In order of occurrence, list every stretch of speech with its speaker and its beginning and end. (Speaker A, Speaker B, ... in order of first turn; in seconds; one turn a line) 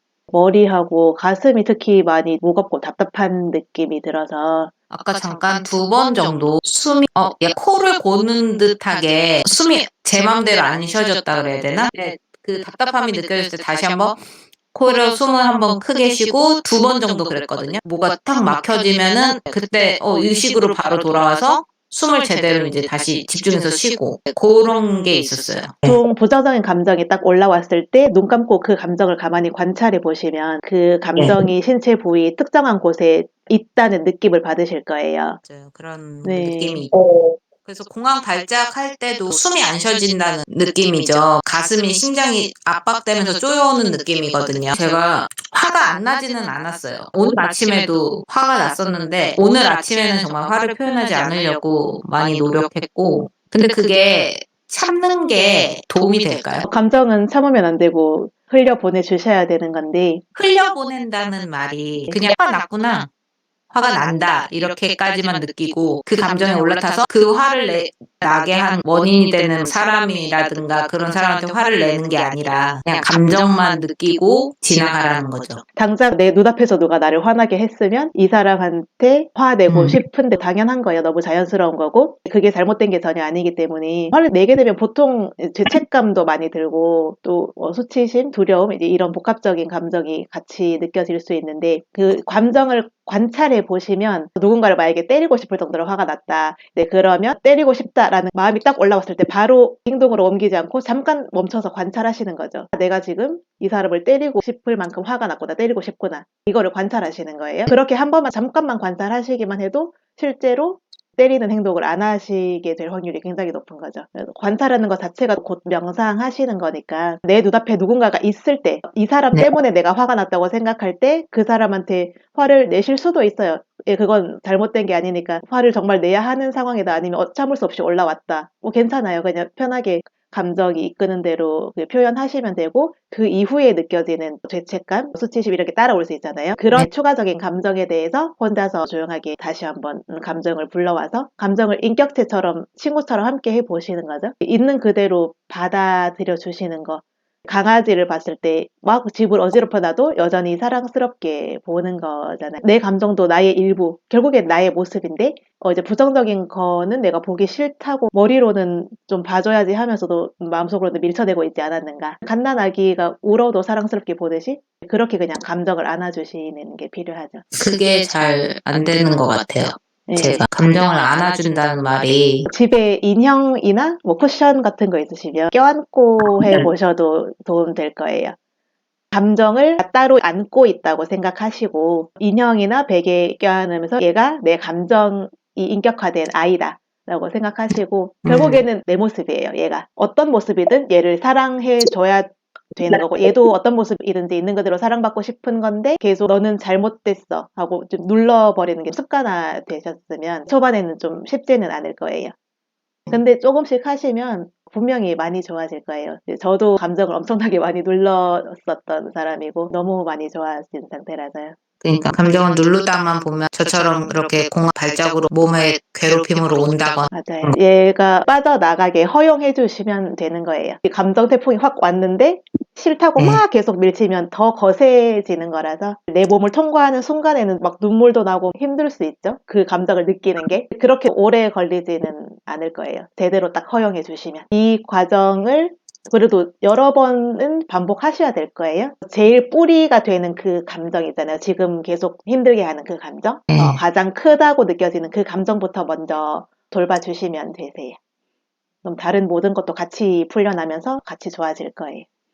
Speaker A: 0.3-4.7
Speaker B: 4.9-14.2
Speaker B: 14.7-26.0
Speaker A: 25.9-35.4
Speaker B: 31.2-31.5
Speaker B: 35.4-56.7
Speaker A: 36.2-36.9
Speaker A: 56.7-60.2
Speaker B: 60.4-63.1
Speaker B: 63.7-75.6
Speaker A: 75.8-167.4
Speaker B: 79.7-80.0
Speaker B: 167.5-172.5
Speaker A: 170.1-170.5
Speaker A: 172.5-178.4
Speaker B: 176.2-176.7
Speaker A: 179.1-202.3
Speaker B: 188.2-188.6
Speaker A: 203.1-211.6
Speaker B: 211.8-217.6
Speaker A: 217.1-248.0
Speaker B: 243.5-243.8
Speaker A: 248.8-252.1